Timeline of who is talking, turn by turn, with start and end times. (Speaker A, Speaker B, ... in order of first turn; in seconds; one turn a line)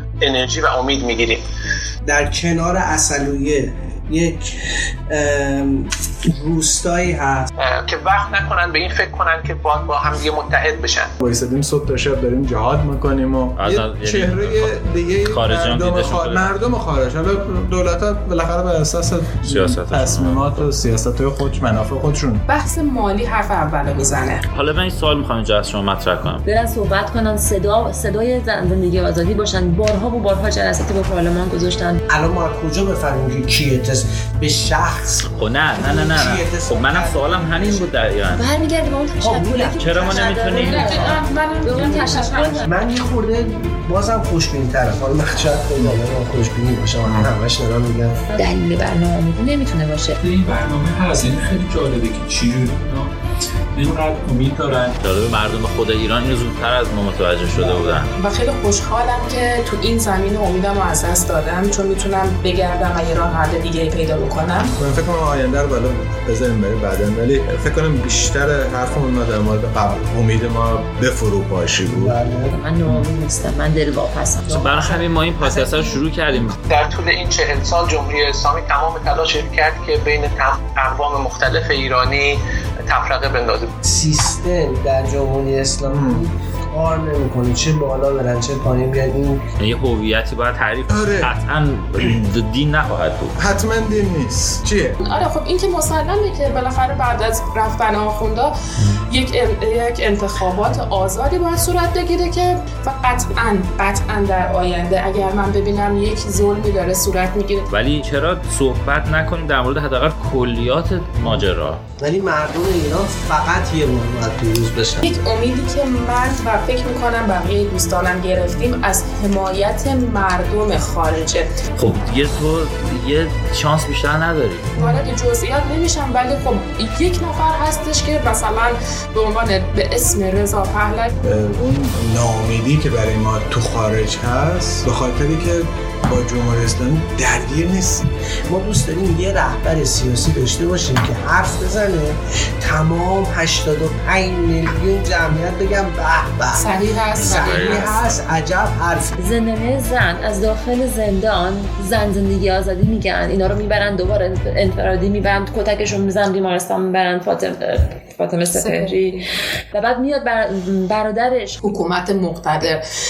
Speaker A: 0.2-1.4
Speaker B: 2.1-4.6
Speaker B: 5.1-7.5
Speaker A: 7.6-11.1
Speaker C: 11.2-22.4
Speaker D: 13.6-16.6
Speaker D: 19.4-20.7
Speaker E: 22.5-24.4
Speaker D: 24.5-26.4
Speaker F: 26.5-32.0
Speaker B: 32.1-37.9
Speaker D: 35.3-38.5
Speaker F: 38.3-42.6
Speaker B: 39.2-40.2
Speaker D: 39.8-41.1
Speaker E: 40.6-42.6
Speaker B: 42.6-48.2
Speaker C: 47.1-47.3
Speaker F: 48.3-50.2
Speaker G: 50.2-53.1
Speaker G: 53.7-55.0
Speaker D: 55.0-58.1
Speaker B: 57.5-58.1
Speaker E: 58.2-64.7
Speaker C: 64.8-72.1
Speaker B: 71.9-72.6
Speaker F: 72.5-74.6
Speaker B: 74.5-76.0
Speaker D: 74.5-76.6
Speaker A: 76.7-83.7
Speaker B: 83.8-89.4
Speaker C: 85.9-86.2
Speaker D: 89.6-93.3
Speaker C: 90.9-91.3
Speaker C: 93.4-95.0
Speaker E: 95.0-98.5
Speaker E: 99.1-107.7
Speaker D: 107.7-111.8
Speaker B: 112.0-115.1
Speaker E: 115.0-121.5
Speaker D: 121.8-124.7
Speaker E: 124.8-131.1
Speaker C: 131.2-138.1
Speaker B: 138.5-149.1
Speaker E: 146.6-148.1
Speaker D: 147.2-148.2
Speaker F: 149.2-159.2
Speaker E: 158.5-158.9
Speaker F: 159.7-161.6
Speaker E: 161.6-162.8